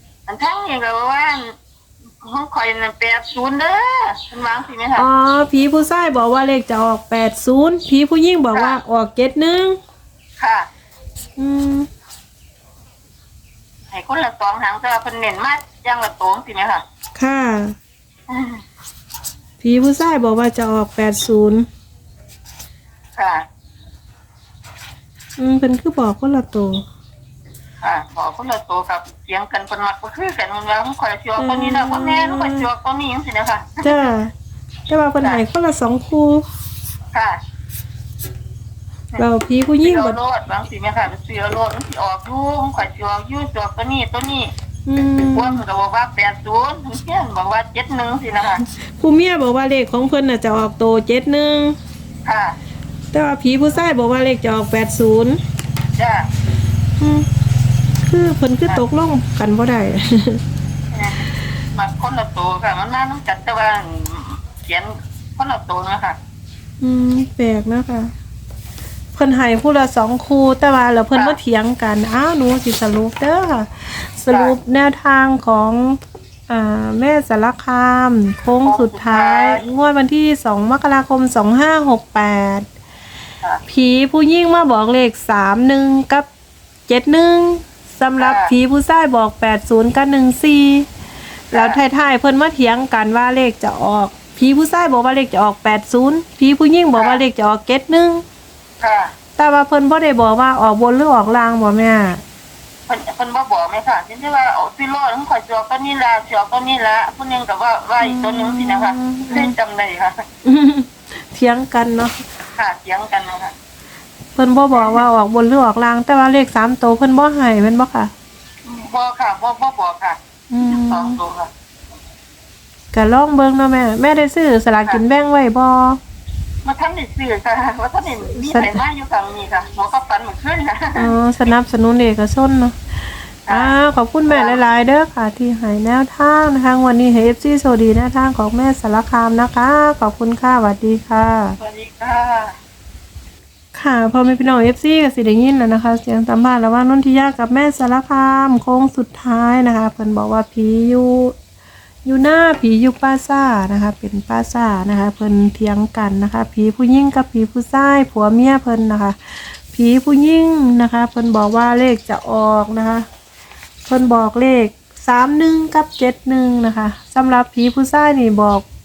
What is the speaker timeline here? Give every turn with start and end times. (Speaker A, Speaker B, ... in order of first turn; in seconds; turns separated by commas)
Speaker A: 0.3-1.5, Speaker A: 2.2-5.1, Speaker B: 5.0-9.8, Speaker A: 8.5-8.8, Speaker A: 10.4-10.7, Speaker B: 11.4-11.9, Speaker A: 13.9-16.8, Speaker B: 17.1-17.7, Speaker A: 18.3-18.6, Speaker B: 19.6-21.7, Speaker A: 23.1-23.4, Speaker B: 25.4-26.8, Speaker A: 27.8-33.9, Speaker B: 31.4-32.7, Speaker B: 33.8-34.3, Speaker B: 34.9-36.5, Speaker A: 37.1-37.4, Speaker B: 39.2-40.2, Speaker A: 39.8-44.5, Speaker B: 44.9-45.6, Speaker A: 45.1-48.6, Speaker B: 48.6-51.8, Speaker A: 52.2-52.6, Speaker B: 53.1-55.4, Speaker A: 56.0-56.3, Speaker B: 57.0-57.3, Speaker B: 58.0-60.4, Speaker A: 60.9-66.2, Speaker B: 66.8-68.1, Speaker B: 69.1-82.7, Speaker A: 74.3-74.6, Speaker A: 78.6-79.6, Speaker B: 83.7-86.2, Speaker B: 86.9-90.9, Speaker A: 88.2-88.5, Speaker B: 91.5-98.2, Speaker A: 91.5-91.8, Speaker A: 97.0-97.2, Speaker A: 98.8-99.1, Speaker B: 99.4-102.2, Speaker A: 102.9-110.2, Speaker B: 108.0-109.5, Speaker B: 110.4-112.1, Speaker A: 112.5-113.5, Speaker B: 114.3-118.1, Speaker A: 114.8-115.0, Speaker A: 118.6-121.5, Speaker B: 120.5-121.2, Speaker B: 122.9-126.0, Speaker A: 126.6-131.1, Speaker B: 128.2-128.8, Speaker B: 131.0-132.8, Speaker B: 133.5-141.6, Speaker A: 133.5-133.7, Speaker A: 134.3-134.6, Speaker A: 141.6-142.5, Speaker B: 143.7-151.3, Speaker B: 152.0-163.0, Speaker B: 163.8-168.6